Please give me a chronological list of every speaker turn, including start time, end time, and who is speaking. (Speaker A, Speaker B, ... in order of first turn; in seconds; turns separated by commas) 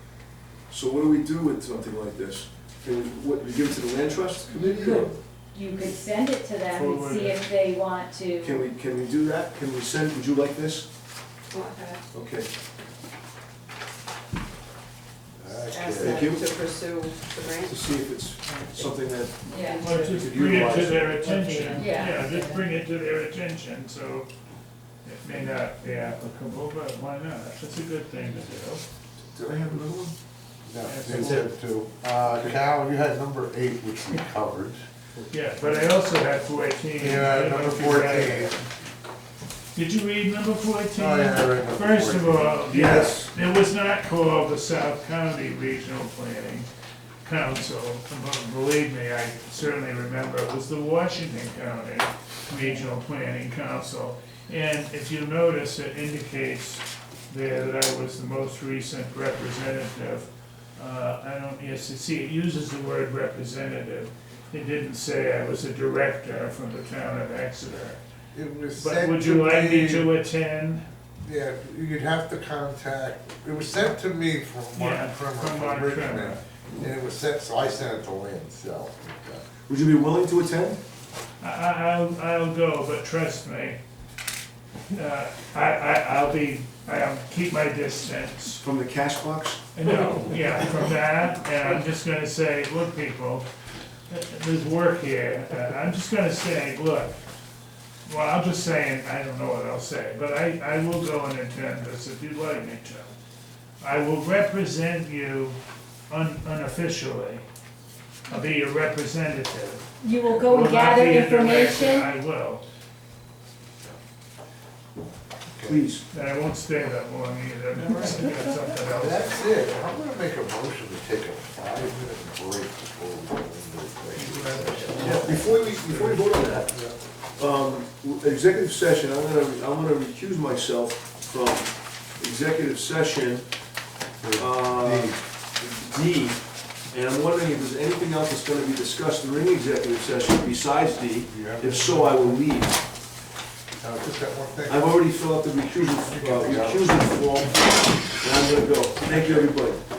Speaker A: 0.7-5.1, Speaker B: 4.5-8.7, Speaker C: 4.6-5.0, Speaker D: 6.7-7.4, Speaker A: 8.4-10.9, Speaker C: 11.5-12.0, Speaker A: 12.1-12.5, Speaker E: 15.4-16.3, Speaker C: 15.7-17.8, Speaker A: 16.0-16.5, Speaker A: 17.6-21.3, Speaker B: 19.4-19.8, Speaker C: 19.5-20.1, Speaker D: 19.8-24.3, Speaker B: 21.2-22.7, Speaker C: 21.3-21.9, Speaker D: 25.0-28.8, Speaker A: 29.3-30.1, Speaker E: 30.6-34.8, Speaker D: 30.8-31.6, Speaker D: 35.3-38.7, Speaker E: 37.0-38.6, Speaker D: 39.7-46.7, Speaker E: 40.9-43.2, Speaker A: 42.7-43.3, Speaker D: 47.2-68.0, Speaker E: 68.3-70.1, Speaker D: 68.7-70.8, Speaker E: 71.2-79.4, Speaker D: 74.7-76.4, Speaker A: 79.7-80.8, Speaker D: 81.4-83.8, Speaker D: 84.9-88.6, Speaker A: 88.6-89.6, Speaker D: 89.7-93.5, Speaker D: 94.1-97.2, Speaker D: 98.0-103.1, Speaker D: 103.8-107.4, Speaker D: 108.3-112.6, Speaker B: 110.0-112.1, Speaker E: 115.5-115.8, Speaker A: 115.7-116.0, Speaker D: 116.1-119.8, Speaker E: 118.8-126.9, Speaker D: 124.1-125.6, Speaker A: 125.0-126.7, Speaker A: 127.4-133.5, Speaker E: 134.2-135.2, Speaker A: 134.3-142.8, Speaker E: 141.2-142.5, Speaker E: 143.8-145.0, Speaker A: 144.7-149.8, Speaker E: 146.0-147.2, Speaker E: 149.0-149.6